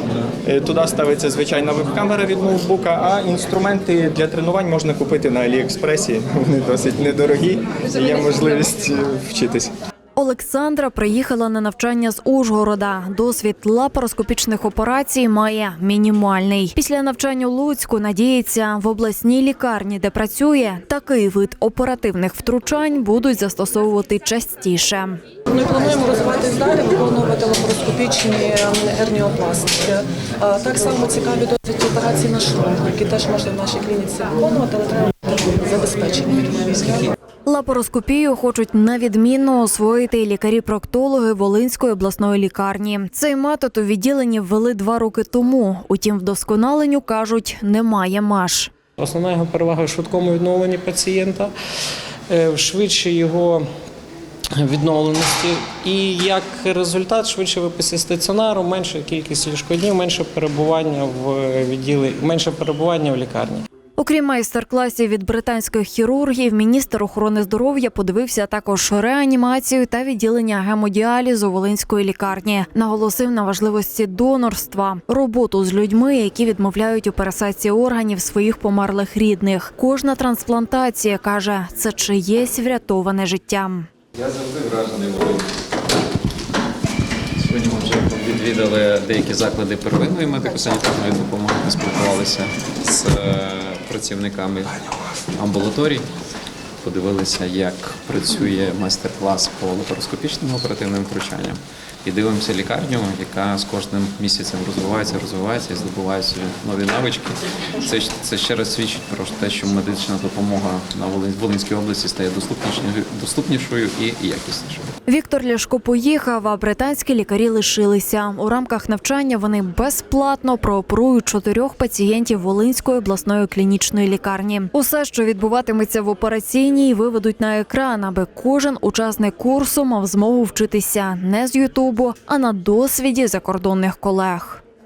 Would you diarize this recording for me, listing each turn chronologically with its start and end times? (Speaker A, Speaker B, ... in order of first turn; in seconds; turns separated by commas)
Speaker A: 0.4-9.7, Speaker B: 10.2-25.2, Speaker C: 25.5-37.1, Speaker B: 37.5-48.7, Speaker D: 49.0-51.5, Speaker D: 52.3-53.6, Speaker D: 54.6-63.7, Speaker B: 64.0-83.9, Speaker E: 84.2-85.4, Speaker E: 87.4-94.8, Speaker E: 95.3-96.1, Speaker E: 96.8-114.9, Speaker B: 115.1-134.6